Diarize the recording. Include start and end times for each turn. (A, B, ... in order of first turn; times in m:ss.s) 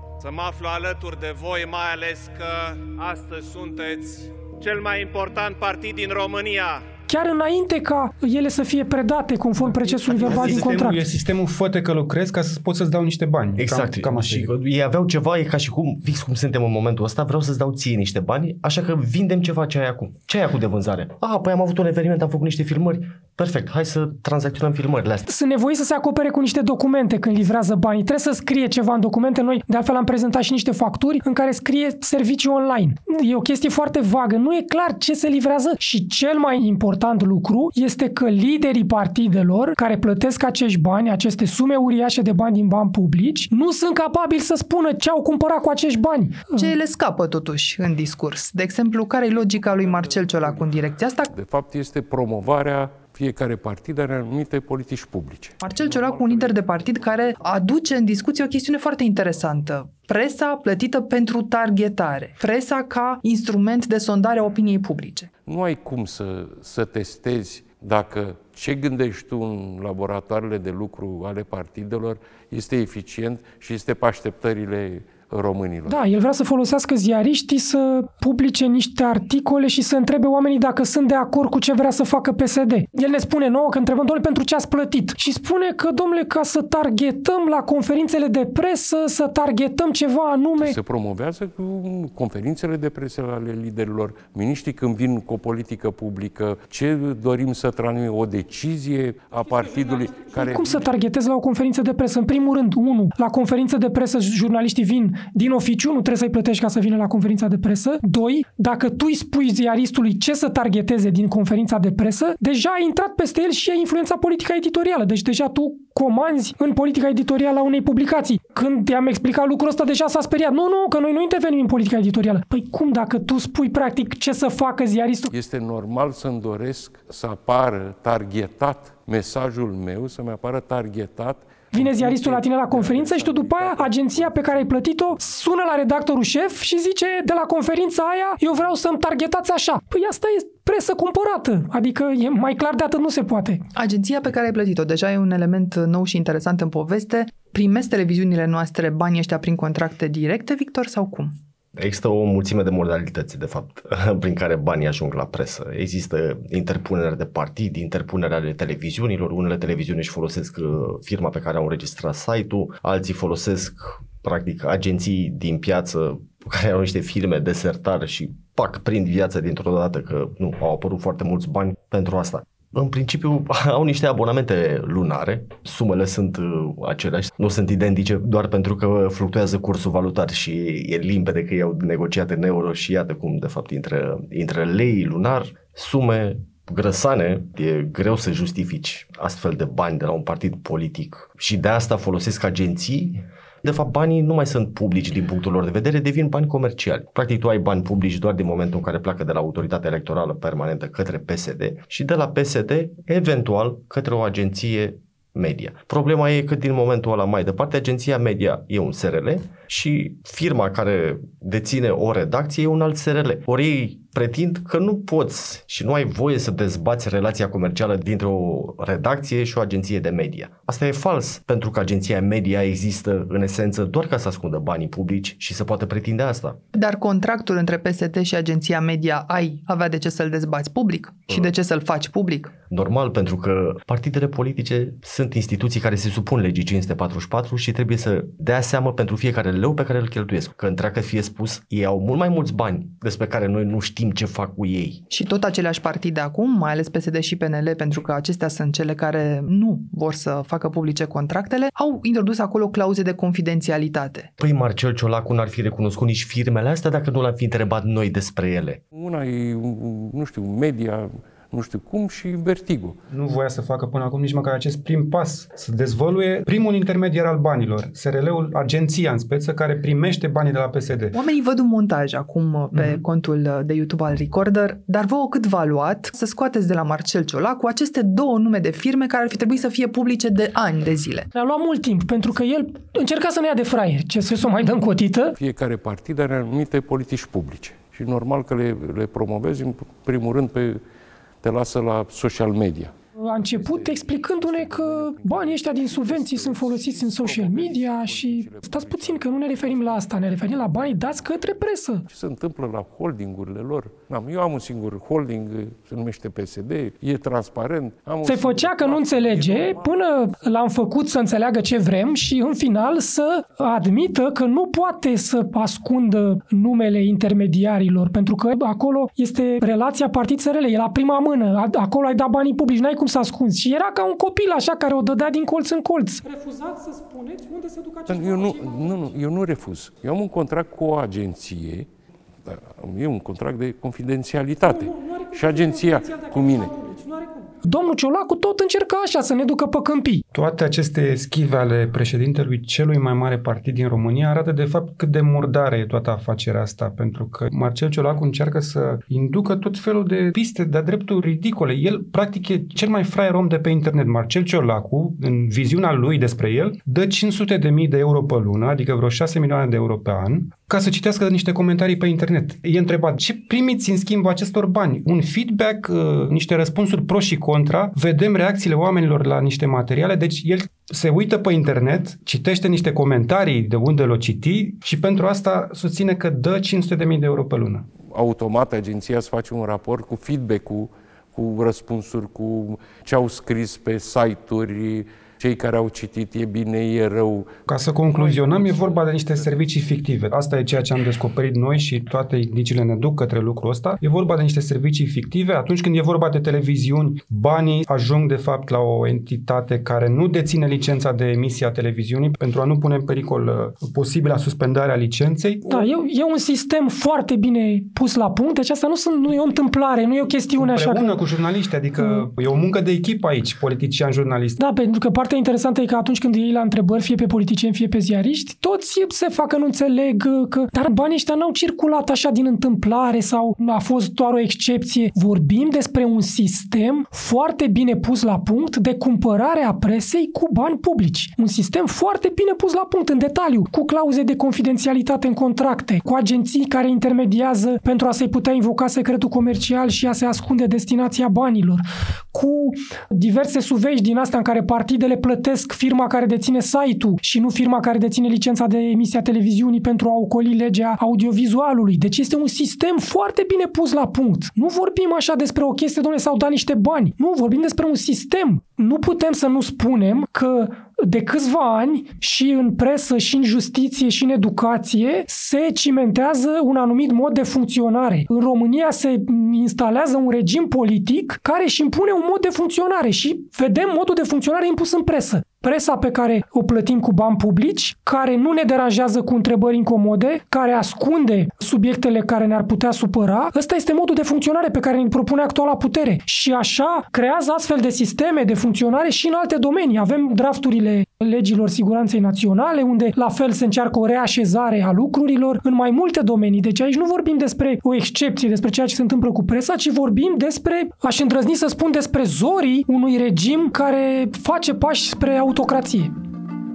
0:00.2-0:06.9 A
0:07.1-0:11.1 B
0:09.7-0:14.5 C
0:10.2-0:10.5 D
0:13.6-0:25.3 D
0:25.3-0:46.7 B
0:46.6-0:51.3 E
0:49.3-0:57.4 F
0:55.6-1:05.3 E
1:05.5-1:16.1 F
1:15.9-1:30.8 B
1:30.6-1:40.9 F
1:39.6-2:05.3 B
2:05.3-2:14.7 F
2:11.7-2:23.6 B
2:23.8-2:31.3 E
2:31.7-3:46.6 D
3:46.8-3:52.6 E
3:52.7-4:05.0 D
4:05.1-4:14.3 E
4:14.4-4:18.8 D
4:18.9-4:23.0 F
4:23.1-4:31.2 C
4:31.1-4:41.3 E
4:41.3-4:45.4 B
4:45.4-4:50.8 F
4:51.4-4:52.9 F
4:53.2-5:02.1 B
4:53.4-5:01.1 F
5:02.1-5:10.0 F
5:08.2-5:29.1 B
5:28.1-5:31.9 F
5:32.4-5:36.7 F
5:34.7-5:40.2 B
5:40.3-6:17.9 C
6:18.1-6:27.5 F
6:27.7-6:45.9 C
6:28.1-6:29.5 F
6:45.7-6:51.2 B
6:50.6-6:54.6 C
6:52.0-6:52.3 B
6:54.6-8:26.1 B